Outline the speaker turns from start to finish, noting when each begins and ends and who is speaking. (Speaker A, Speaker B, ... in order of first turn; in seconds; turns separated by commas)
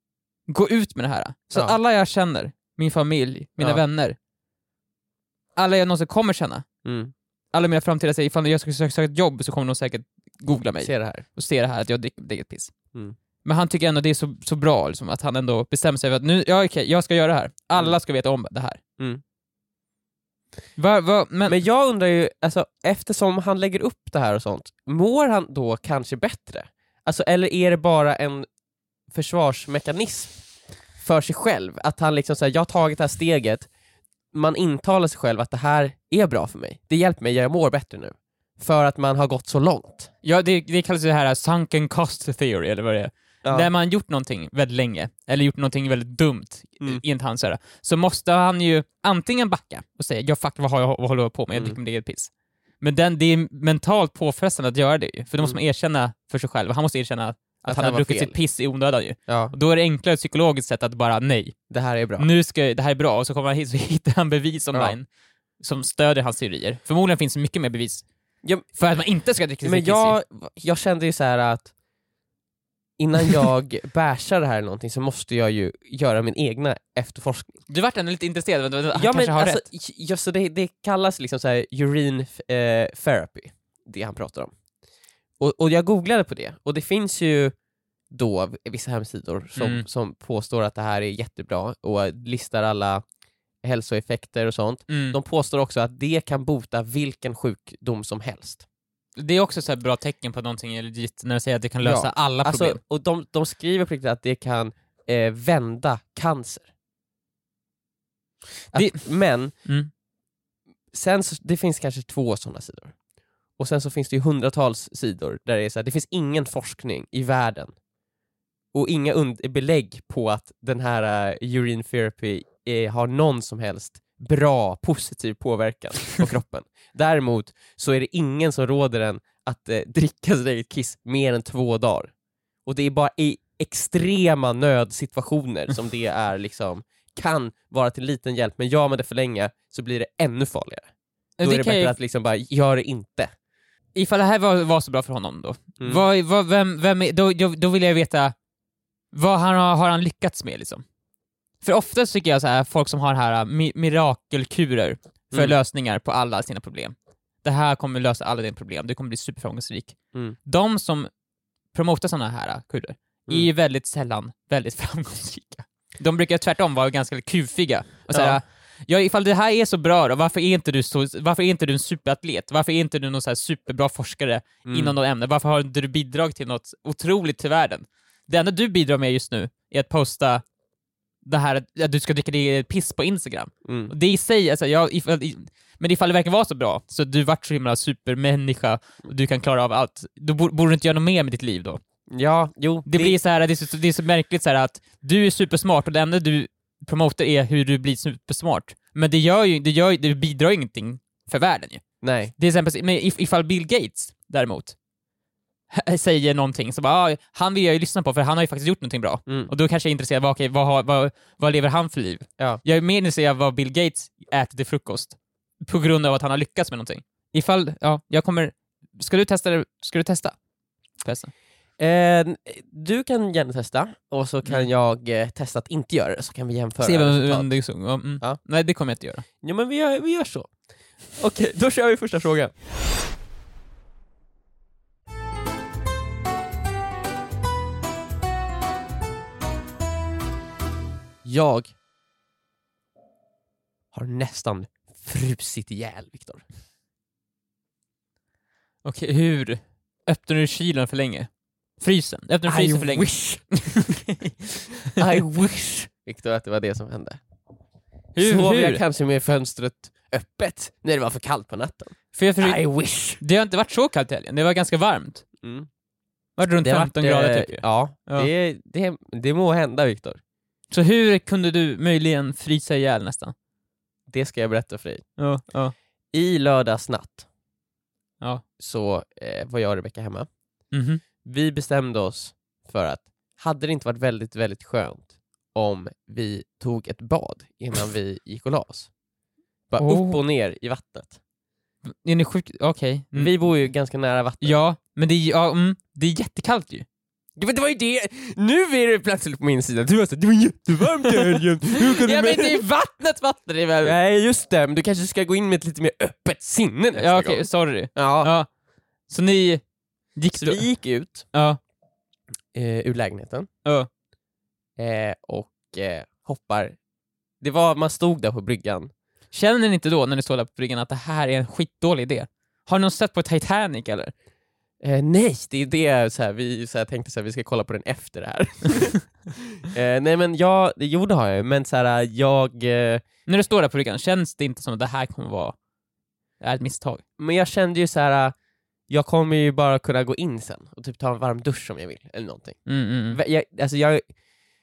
Speaker A: 0.5-4.2, Speaker A: 5.5-6.7, Speaker B: 6.8-7.1, Speaker A: 7.5-12.7, Speaker B: 10.8-11.2, Speaker A: 13.4-18.8, Speaker A: 20.8-21.6, Speaker B: 21.5-28.4, Speaker B: 29.1-30.3, Speaker B: 31.0-33.7, Speaker B: 34.3-40.1, Speaker A: 40.2-61.6, Speaker B: 43.4-43.7, Speaker B: 51.5-51.8, Speaker B: 57.6-58.4, Speaker B: 59.3-59.5, Speaker B: 61.7-62.3, Speaker A: 62.2-65.0, Speaker A: 65.6-68.0, Speaker A: 68.7-70.2, Speaker B: 69.6-71.7, Speaker B: 73.0-77.6, Speaker A: 77.7-79.6, Speaker B: 78.9-84.5, Speaker B: 85.4-87.5, Speaker B: 88.1-93.0, Speaker A: 89.5-89.8, Speaker B: 93.6-98.6, Speaker A: 94.9-95.2, Speaker A: 99.2-102.8, Speaker B: 101.8-106.7, Speaker B: 108.7-109.5, Speaker A: 108.7-109.9, Speaker B: 110.9-112.9, Speaker B: 113.6-117.7, Speaker B: 118.7-132.1, Speaker B: 132.6-140.9, Speaker A: 141.4-141.9, Speaker B: 141.4-143.3, Speaker A: 143.9-148.3, Speaker B: 145.8-146.0, Speaker A: 149.1-150.8, Speaker A: 151.6-161.1, Speaker B: 155.3-155.6, Speaker A: 161.7-180.4, Speaker B: 168.1-168.4, Speaker B: 174.6-174.9, Speaker A: 181.2-191.8, Speaker B: 183.6-183.9, Speaker B: 192.1-193.2, Speaker A: 192.8-201.8, Speaker B: 202.0-202.3, Speaker A: 202.4-204.7, Speaker A: 205.7-220.3, Speaker B: 209.2-209.5, Speaker A: 221.0-221.3, Speaker B: 221.8-227.5, Speaker A: 226.8-229.2, Speaker B: 229.4-230.5, Speaker B: 231.1-232.5, Speaker B: 241.2-241.7, Speaker B: 243.9-246.4, Speaker A: 248.8-255.2, Speaker B: 252.4-253.4, Speaker B: 254.9-257.2, Speaker A: 258.1-258.8, Speaker B: 258.2-263.2, Speaker A: 262.1-265.2, Speaker B: 265.4-265.7, Speaker A: 266.4-268.3, Speaker B: 266.6-270.2, Speaker A: 270.7-273.3, Speaker B: 274.1-275.0, Speaker A: 275.2-275.7, Speaker B: 276.1-277.2, Speaker B: 278.6-280.3, Speaker A: 280.7-281.0, Speaker B: 281.2-288.9, Speaker B: 289.7-291.2, Speaker A: 289.8-290.2, Speaker A: 291.8-293.3, Speaker B: 293.1-294.6, Speaker A: 294.4-296.8, Speaker B: 297.4-302.6, Speaker A: 301.1-303.9, Speaker B: 303.8-308.3, Speaker A: 306.9-308.5, Speaker A: 309.1-309.6, Speaker A: 310.1-310.6, Speaker B: 310.3-311.3, Speaker A: 311.3-311.6, Speaker B: 312.5-313.5, Speaker B: 314.8-316.8, Speaker B: 317.4-318.9, Speaker A: 319.3-324.1, Speaker B: 324.8-333.0, Speaker A: 333.3-335.6, Speaker A: 336.4-337.0, Speaker B: 337.2-338.3, Speaker B: 338.9-344.1, Speaker A: 342.6-343.2